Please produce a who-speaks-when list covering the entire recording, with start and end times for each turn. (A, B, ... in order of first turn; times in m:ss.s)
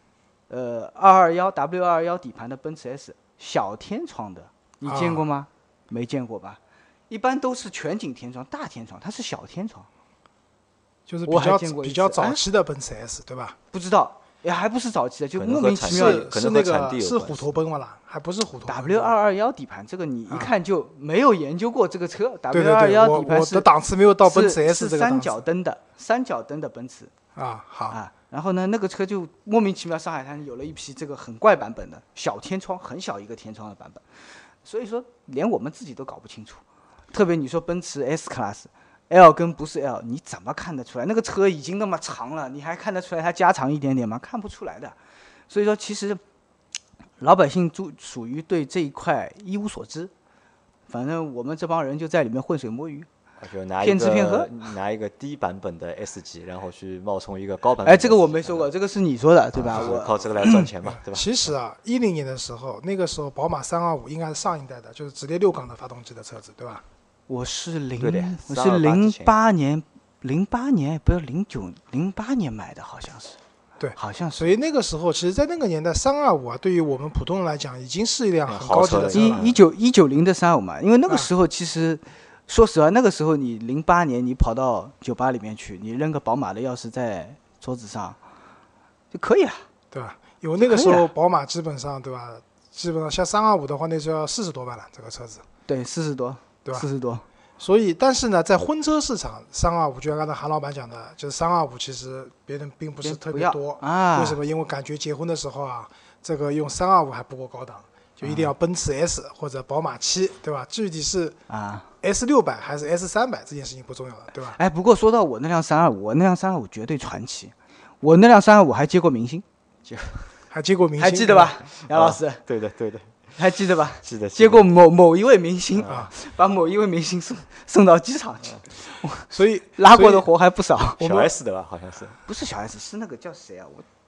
0:00.5-0:09.9 A
0:04.8-0:05.2 B
0:11.1-0:13.6 B
0:11.3-0:12.4 A
0:13.7-0:16.3 A
0:15.4-0:17.5 C
0:15.9-0:19.1 B
0:18.7-0:23.7 A
0:22.5-0:25.4 B
0:24.2-0:27.1 A
0:27.4-0:28.0 B
0:27.9-0:34.0 A
0:34.6-0:45.0 A
0:45.5-0:46.2 A
0:47.2-0:50.1 A
0:50.9-0:53.1 A
0:53.4-0:58.7 C
0:53.8-0:54.5 A
0:57.8-1:00.7 A
0:59.6-1:01.3 C
1:00.8-1:06.8 B
1:07.3-1:13.4 A
1:08.0-1:09.4 C
1:13.8-1:19.5 B
1:14.0-1:14.5 A
1:18.5-1:19.6 C
1:19.1-1:28.2 A
1:29.1-1:29.6 A
1:29.9-1:35.4 B
1:30.6-1:31.1 A
1:35.7-1:37.2 A
1:37.6-1:51.4 B
1:43.0-1:44.4 A
1:48.2-1:48.5 A
1:51.5-1:51.9 A
1:52.0-1:54.6 B
1:54.6-1:59.4 A
1:59.9-2:00.3 C
2:00.5-2:01.5 B
2:01.0-2:02.4 A
2:01.9-2:03.2 C
2:03.4-2:11.0 A
2:04.0-2:04.7 C
2:09.3-2:10.3 B
2:11.0-2:12.2 C
2:11.0-2:11.3 B
2:12.3-2:13.8 A